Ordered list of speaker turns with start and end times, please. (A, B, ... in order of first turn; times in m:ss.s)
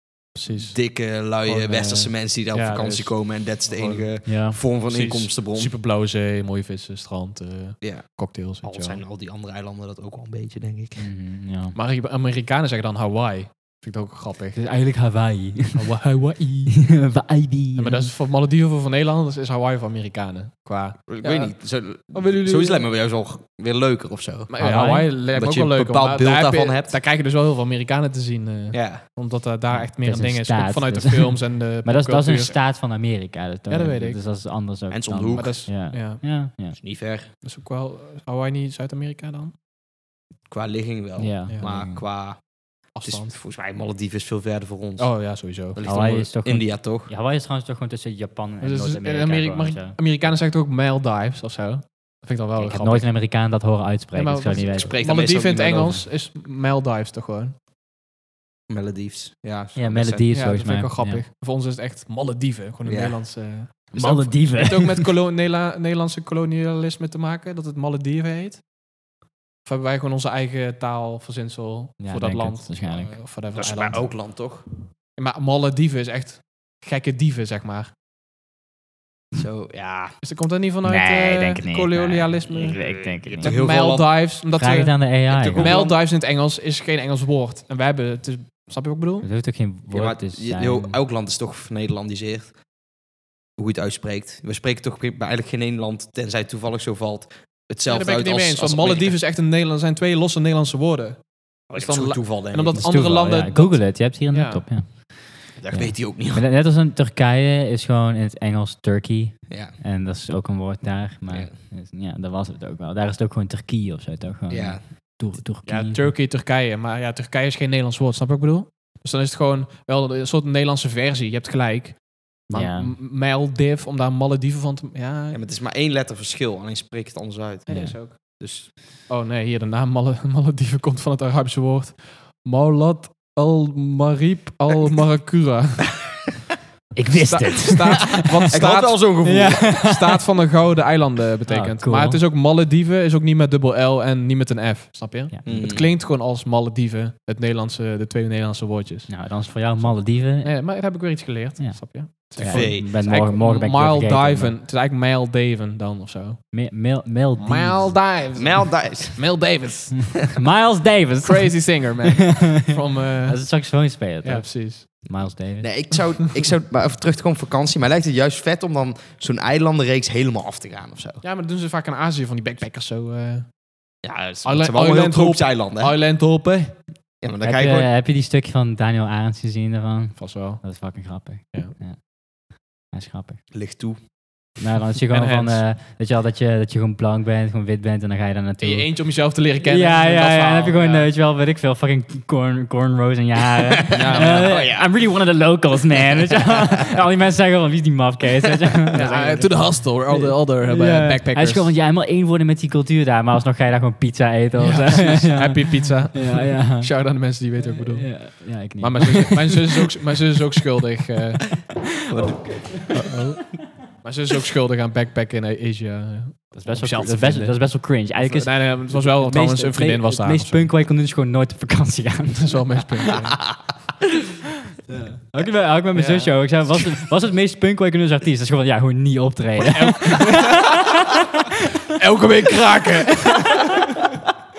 0:00.3-0:04.3 A
0:00.5-0:05.7 B
0:04.2-0:04.6 C
0:04.8-0:09.0 A
0:07.8-0:08.1 B
0:08.6-0:11.1 B
0:11.0-0:11.8 C
0:11.7-0:14.6 A
0:14.5-0:15.9 C
0:15.7-0:17.1 A
0:16.7-0:18.1 C
0:17.8-0:22.9 A
0:21.1-0:24.5 B
0:24.5-0:32.6 A
0:24.6-0:25.1 C
0:25.0-0:27.0 B
0:28.7-0:29.0 B
0:29.7-0:36.8 C
0:33.7-0:34.2 A
0:34.9-0:35.6 B
0:35.3-0:36.2 A
0:36.8-0:37.3 B
0:37.4-0:39.5 A
0:40.5-0:45.1 B
0:41.2-0:42.0 C
0:41.5-0:41.8 A
0:42.9-0:43.3 A
0:45.0-0:45.8 A
0:45.7-0:47.1 B
0:45.8-0:50.0 C
0:48.6-0:53.2 A
0:52.6-0:55.0 C
0:54.1-0:57.5 A
0:54.6-0:56.0 B
0:58.7-1:00.3 B
0:59.7-1:01.2 C
1:00.3-1:08.6 A
1:02.8-1:03.2 B
1:03.9-1:05.1 C
1:09.6-1:14.1 A
1:12.0-1:13.2 C
1:13.5-1:14.6 B
1:15.2-1:17.9 A
1:19.3-1:20.2 B
1:20.2-1:22.8 A
1:20.8-1:23.6 C
1:22.7-1:24.1 B
1:23.3-1:25.0 A
1:24.5-1:25.8 C
1:25.3-1:26.0 B
1:25.6-1:29.3 A
1:29.2-1:31.0 C
1:29.9-1:32.6 B
1:33.6-1:39.2 B
1:37.9-1:44.8 A
1:41.7-1:42.9 B
1:42.7-1:56.1 C
1:45.6-1:46.4 B
1:49.5-1:49.8 B
1:54.5-1:54.8 B
1:55.6-2:05.4 A
2:02.5-2:03.0 C
2:05.3-2:08.7 B
2:07.7-2:08.4 A
2:07.7-2:08.0 C
2:09.1-2:16.2 A
2:16.9-2:18.4 C
2:17.2-2:36.5 A
2:18.1-2:19.8 B
2:19.2-2:20.2 C
2:21.5-2:22.2 C
2:25.4-2:25.9 B
2:29.1-2:30.5 C
2:31.6-2:34.5 C
2:32.4-2:32.9 B
2:36.5-2:38.0 C
2:37.4-2:40.3 A
2:38.3-2:39.4 B
2:40.1-2:42.7 C
2:41.2-2:45.0 A
2:43.3-2:45.9 C
2:45.6-2:51.2 B
2:51.2-2:53.5 A
2:54.0-2:56.0 B
2:54.4-2:56.9 A
2:57.2-2:57.9 B
2:57.4-3:03.4 C
3:00.2-3:00.7 A
3:03.5-3:04.0 B
3:04.6-3:29.8 C
3:05.1-3:05.7 A
3:08.6-3:11.1 A
3:13.9-3:14.9 B
3:14.0-3:14.4 A
3:18.9-3:21.7 A
3:24.6-3:31.6 A
3:32.1-3:33.1 B
3:32.1-3:33.3 C
3:33.0-3:40.7 A
3:36.6-3:43.1 C
3:42.3-3:43.6 A
3:44.9-3:51.3 C
3:45.9-3:46.9 A
3:49.6-3:50.8 A
3:51.9-3:54.0 A